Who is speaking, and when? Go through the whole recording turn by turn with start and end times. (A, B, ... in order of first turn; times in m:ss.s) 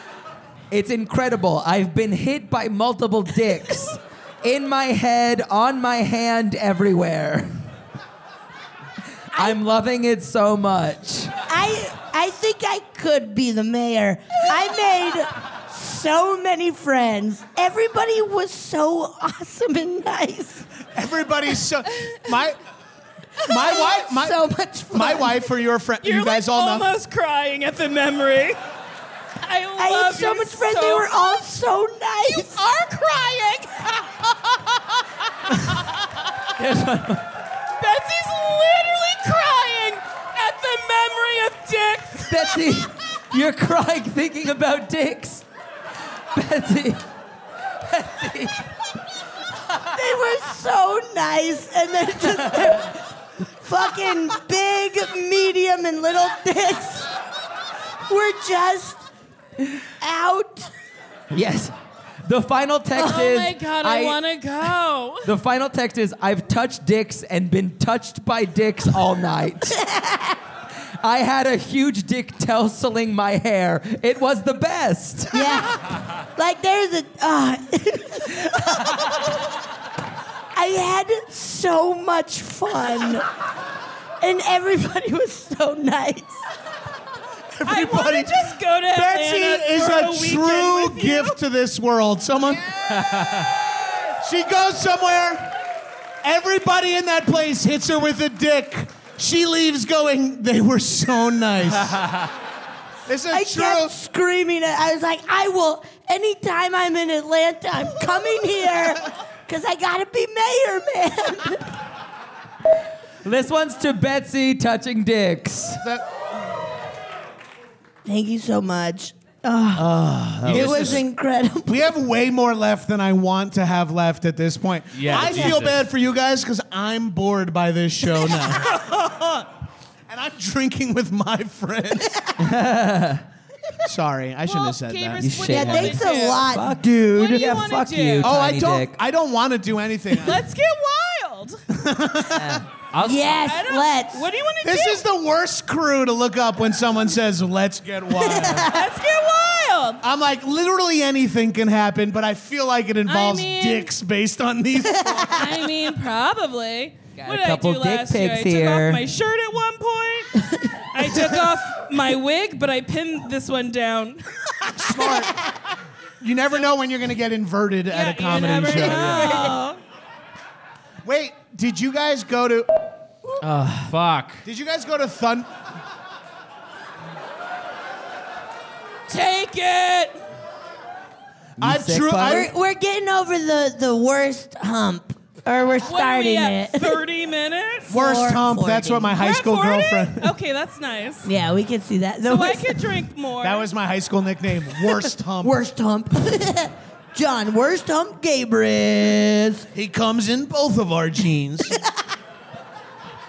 0:00.7-0:07.5 A
0:09.3-0:11.3 A
0:11.5-0:20.7 B
0:20.9-0:22.6 C
0:23.4-0:26.9 C
0:23.5-0:25.4 B
0:26.0-0:28.6 D
0:29.4-0:31.4 D
0:29.8-0:32.6 B
0:32.3-0:34.9 D
0:36.6-0:37.3 A
0:37.8-0:42.6 D
0:42.3-0:45.4 A
0:46.3-0:47.0 A
0:47.8-0:48.7 A
0:49.8-0:53.0 B
0:53.6-0:57.1 B
0:58.1-0:59.1 B
1:00.0-1:00.7 B
1:01.3-1:04.2 A
1:03.0-1:05.3 D
1:05.2-1:09.8 A
1:09.7-1:10.4 B
1:11.0-1:15.5 A
1:15.3-1:19.3 B
1:20.6-1:23.3 B
1:24.2-1:26.4 B
1:27.5-1:33.0 C
1:27.6-1:31.4 D
1:32.9-1:33.5 E
1:34.2-1:35.5 C
1:36.2-1:42.0 C
1:43.1-1:43.9 C
1:43.3-1:51.7 B
1:53.2-1:55.8 A
1:58.0-1:59.9 B
1:59.8-2:01.0 A
2:00.5-2:01.9 B
2:00.5-2:01.0 E
2:00.5-2:01.0 C
2:01.7-2:08.9 C
2:04.9-2:05.8 E
2:08.3-2:09.4 D
2:10.1-2:12.5 C
2:12.4-2:13.2 A
2:13.8-2:15.3 C
2:14.4-2:16.5 D
2:15.2-2:19.0 A
2:15.5-2:17.5 B
2:17.1-2:18.3 D
2:18.2-2:20.4 C
2:20.1-2:21.6 D
2:21.7-2:22.6 C
2:22.3-2:22.7 A
2:22.9-2:23.5 E
2:23.0-2:24.3 B
2:23.4-2:25.0 D
2:24.6-2:28.8 C
2:28.1-2:28.9 B
2:28.6-2:30.0 D
2:30.0-2:35.5 C
2:33.1-2:33.9 D
2:34.8-2:35.6 B
2:35.3-2:44.2 D
2:37.2-2:39.0 A
2:44.7-2:45.4 C
2:46.2-2:49.5 C
2:47.9-2:49.8 D
2:51.0-2:52.7 C
2:53.4-2:53.9 A
2:53.8-2:54.4 E
2:54.4-2:55.5 C
2:59.1-3:00.2 D
3:01.6-3:02.5 A
3:01.6-3:02.5 C
3:02.2-3:07.0 B
3:05.8-3:07.9 D
3:07.9-3:09.2 B
3:07.9-3:10.3 C
3:09.2-3:11.3 D
3:11.2-3:13.0 B
3:12.2-3:13.7 D
3:13.4-3:15.6 C
3:14.8-3:19.7 B
3:19.7-3:21.8 C